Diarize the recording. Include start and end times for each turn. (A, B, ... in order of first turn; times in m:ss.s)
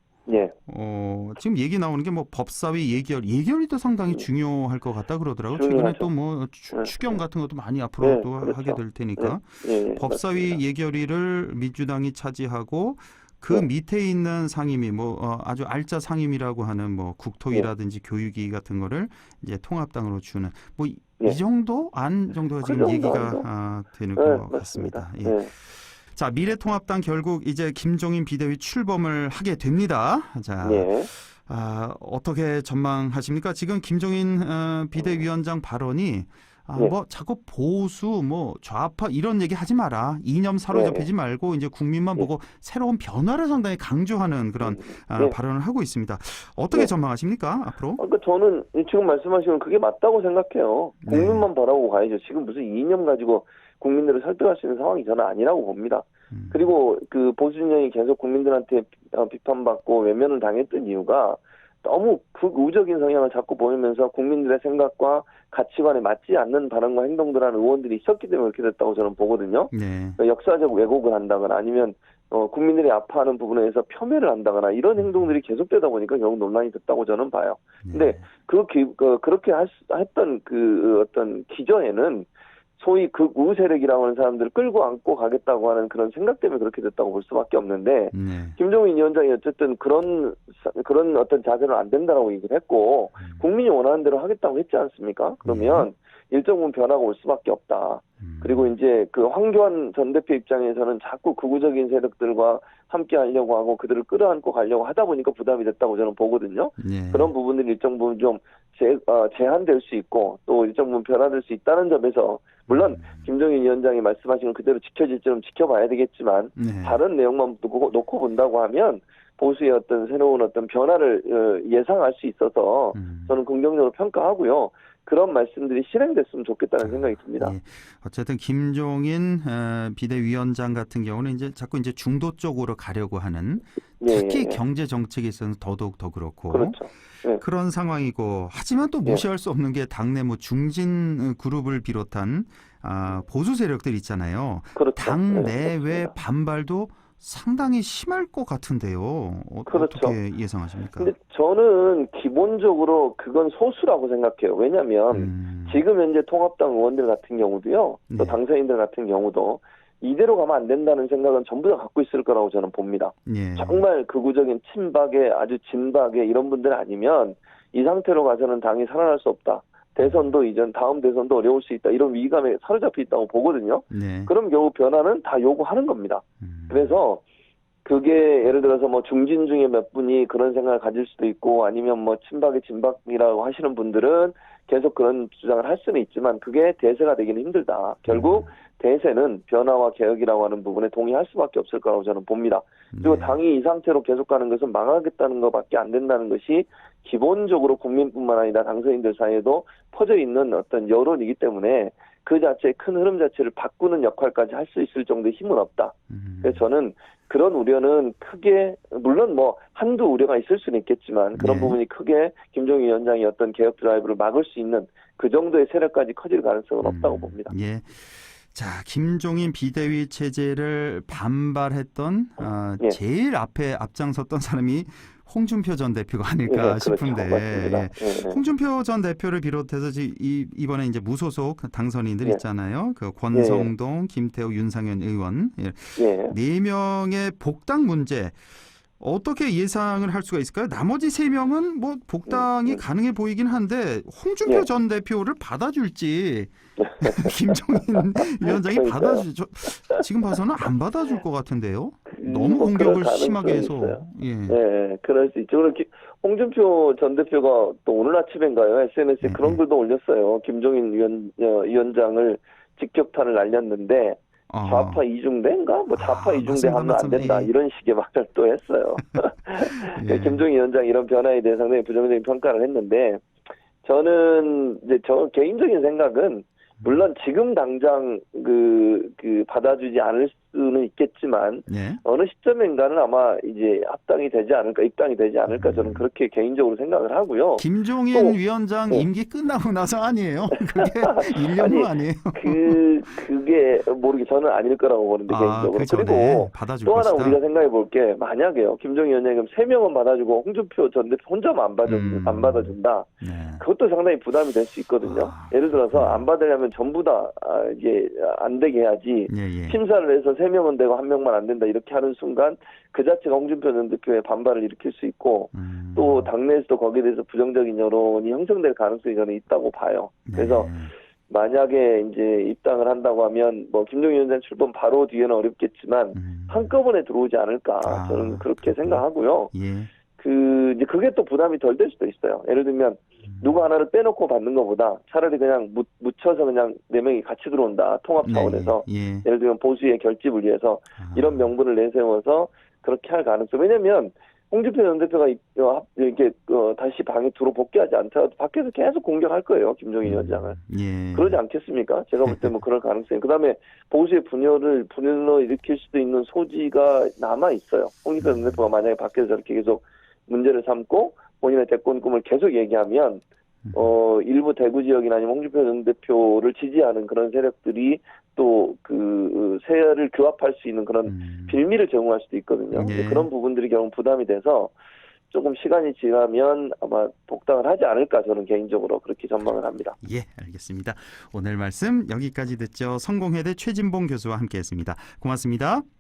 0:00.3-0:00.5 A
0:00.7-0:48.0 B
0:05.5-0:06.1 A
0:06.7-0:07.2 A
0:08.0-0:10.6 A
0:22.6-0:23.5 A
0:24.2-0:25.5 A
0:30.6-0:31.1 A
0:35.0-0:35.2 A
0:40.7-0:41.1 A
0:44.6-0:45.4 A
0:48.0-1:22.3 A
0:51.0-0:51.5 B
0:56.3-0:56.7 B
1:09.7-1:10.2 B
1:15.0-1:15.3 B
1:17.8-1:18.2 B
1:22.8-2:07.6 A
1:28.1-1:28.6 B
1:35.4-1:35.9 B
1:38.2-1:38.7 B
1:46.8-1:47.3 B
1:52.7-1:53.3 B
1:56.6-1:57.0 B
2:02.9-2:03.4 B
2:06.8-2:31.1 B
2:14.0-2:14.6 A
2:16.5-2:17.4 A
2:24.8-2:26.1 A
2:29.7-2:30.2 A
2:31.0-2:57.2 A
2:35.1-2:35.8 B
2:38.1-2:38.4 B
2:43.3-2:43.8 B
2:50.0-2:50.3 B
2:53.9-2:54.3 B
2:56.4-2:56.9 B
2:57.8-3:37.5 A
3:08.1-3:08.5 B
3:12.9-3:13.4 B
3:26.1-3:26.6 B
3:31.4-3:31.8 B
3:36.8-3:58.4 B
3:46.5-3:48.4 A
3:53.3-3:53.7 A
3:56.0-3:56.3 A
3:59.0-4:14.6 B
4:02.3-4:02.8 A
4:06.8-4:10.1 A
4:12.1-4:33.2 A
4:19.2-4:19.6 B
4:24.5-4:25.0 B
4:26.0-4:27.5 B
4:29.6-4:30.5 B
4:33.8-4:48.4 A
4:41.7-4:42.0 B
4:45.5-4:46.1 B
4:47.6-4:52.9 B
4:50.6-5:20.7 A
4:55.3-4:57.4 B
5:01.9-5:03.6 B
5:05.0-5:06.3 B
5:09.3-5:09.8 B
5:15.5-5:16.3 B
5:20.3-5:20.9 B
5:21.3-5:29.5 A
5:26.2-5:26.7 B
5:27.8-5:29.9 B
5:30.2-5:50.6 A
5:38.2-5:39.3 B
5:41.0-5:41.5 B
5:50.0-5:51.4 B
5:51.1-6:14.7 A
5:52.2-5:52.5 B
5:58.2-5:58.6 B
6:03.6-6:03.9 B
6:11.0-6:11.6 B
6:12.7-6:13.3 B
6:15.3-6:20.0 A
6:20.0-6:25.8 B